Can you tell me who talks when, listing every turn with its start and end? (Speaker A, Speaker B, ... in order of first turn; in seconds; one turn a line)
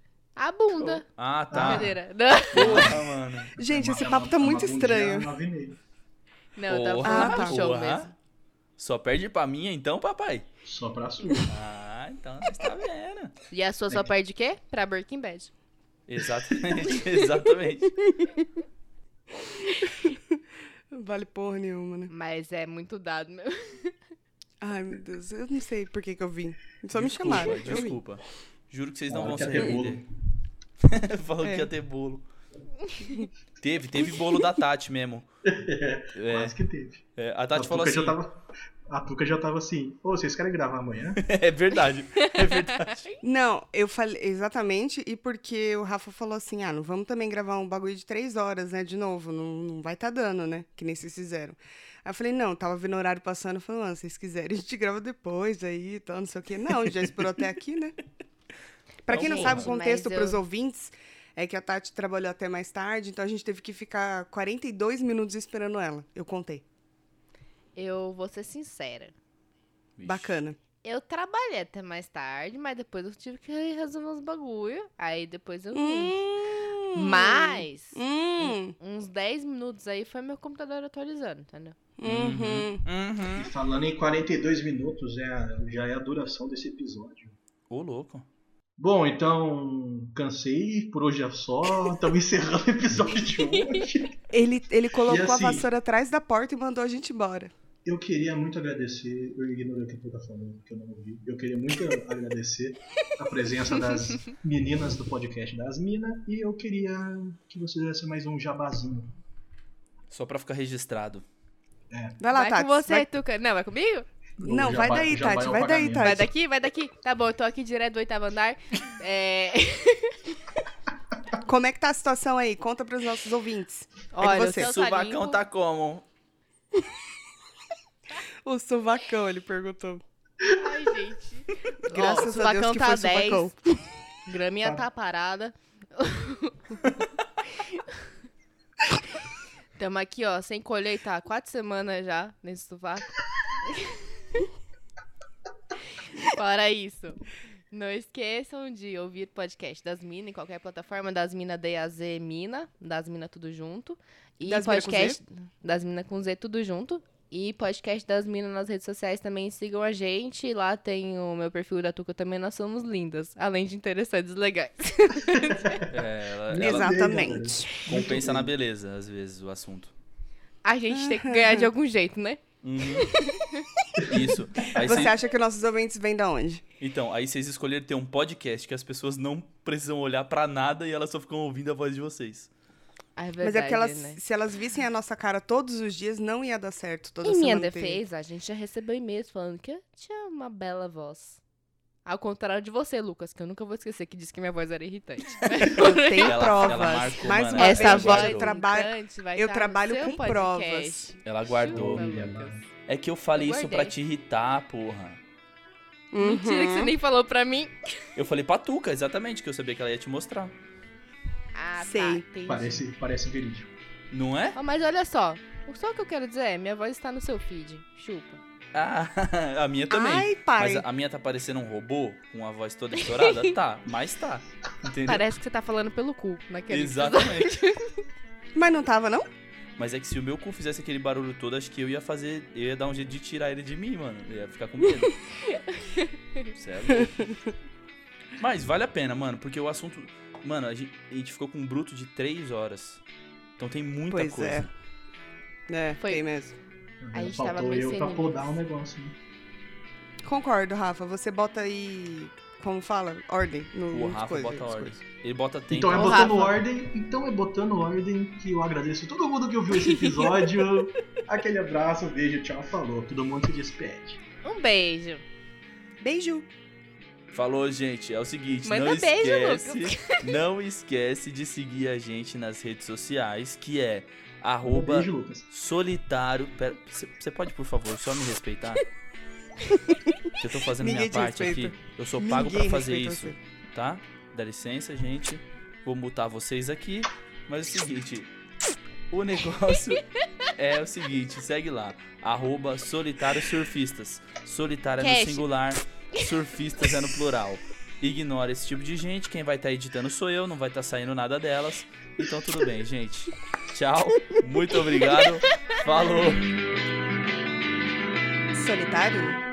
Speaker A: 0.4-2.9
Speaker B: 1.1-1.9
Speaker C: 1.5-1.9
Speaker B: 2.5-3.5
Speaker C: 2.5-3.0
Speaker C: 3.5-5.8
Speaker D: 3.6-5.3
Speaker A: 6.5-8.1
Speaker B: 6.7-8.1
Speaker D: 7.0-7.6
Speaker B: 8.8-10.4
Speaker C: 10.6-11.5
Speaker B: 11.5-13.3
Speaker A: 13.5-15.5
Speaker B: 16.1-18.0
Speaker D: 19.8-20.4
Speaker D: 20.9-22.1
Speaker A: 22.1-23.9
Speaker D: 24.6-28.0
Speaker B: 26.9-30.0
Speaker C: 29.1-30.1
Speaker B: 30.8-32.2
Speaker D: 31.4-31.7
Speaker B: 33.6-35.2
Speaker C: 35.4-37.0
Speaker B: 36.1-36.6
Speaker B: 37.1-38.2
Speaker C: 37.5-41.2
Speaker B: 41.2-43.1
Speaker D: 43.2-58.0
Speaker D: 59.0-66.6
Speaker B: 59.1-59.7
Speaker A: 59.1-60.4
Speaker A: 67.8-69.1
Speaker B: 70.0-70.4
Speaker D: 70.0-70.6
Speaker A: 70.8-76.2
Speaker D: 75.7-78.8
Speaker A: 76.9-81.7
Speaker D: 82.0-82.8
Speaker B: 82.0-83.5
Speaker C: 83.3-87.3
Speaker B: 87.7-88.2
Speaker C: 88.8-94.2
Speaker A: 93.5-93.8
Speaker D: 94.3-97.5
Speaker C: 95.0-95.7
Speaker C: 97.8-109.1
Speaker B: 110.1-111.2
Speaker C: 111.9-112.2
Speaker D: 112.2-113.1
Speaker A: 112.3-114.0
Speaker C: 114.4-116.2
Speaker D: 114.4-116.2
Speaker A: 116.0-120.2
Speaker D: 121.4-124.7
Speaker A: 124.1-125.4
Speaker B: 124.2-126.0
Speaker D: 128.4-130.0
Speaker A: 130.5-133.5
Speaker D: 131.8-133.8
Speaker A: 134.2-136.8
Speaker A: 137.5-138.0
Speaker A: 139.8-144.1
Speaker A: 146.2-165.8
Speaker D: 154.4-155.2
Speaker C: 165.6-165.9
Speaker B: 165.9-169.9
Speaker C: 166.5-168.5
Speaker D: 166.6-167.8
Speaker A: 170.6-172.4
Speaker D: 170.9-171.7
Speaker B: 172.6-173.1
Speaker A: 173.3-173.7
Speaker C: 174.0-174.2
Speaker B: 174.1-175.1
Speaker D: 174.7-176.6
Speaker B: 176.8-182.5
Speaker A: 183.2-184.2
Speaker D: 183.4-188.0
Speaker A: 187.2-191.4
Speaker A: 192.1-196.5
Speaker D: 195.6-201.1
Speaker B: 196.2-198.5
Speaker A: 197.5-202.6
Speaker B: 201.2-202.1
Speaker C: 201.7-202.6
Speaker B: 202.8-205.2
Speaker A: 203.3-203.9
Speaker D: 206.1-206.9
Speaker A: 206.2-207.9
Speaker B: 208.2-210.5
Speaker A: 211.5-212.8
Speaker D: 211.8-212.2
Speaker C: 212.5-213.7
Speaker B: 214.1-214.6
Speaker A: 214.5-218.4
Speaker B: 218.7-225.3
Speaker D: 219.9-220.9
Speaker A: 223.1-223.5
Speaker A: 225.0-227.8
Speaker B: 226.7-227.7
Speaker D: 228.5-229.3
Speaker B: 229.8-235.2
Speaker A: 235.5-236.5
Speaker B: 236.5-237.3
Speaker B: 238.4-243.0
Speaker B: 243.6-244.7
Speaker D: 244.1-244.7
Speaker D: 245.7-246.5
Speaker A: 246.0-246.2
Speaker C: 247.0-249.2
Speaker A: 247.1-248.5
Speaker D: 250.2-254.9
Speaker B: 253.9-256.4
Speaker C: 255.7-264.2
Speaker A: 255.9-256.6
Speaker A: 259.9-260.3
Speaker A: 264.4-265.2
Speaker D: 266.0-266.5
Speaker B: 267.3-278.8
Speaker A: 268.6-270.2
Speaker C: 274.6-275.4
Speaker B: 280.4-288.3
Speaker D: 280.8-283.4
Speaker B: 289.1-306.5
Speaker A: 295.0-295.5
Speaker D: 308.5-309.4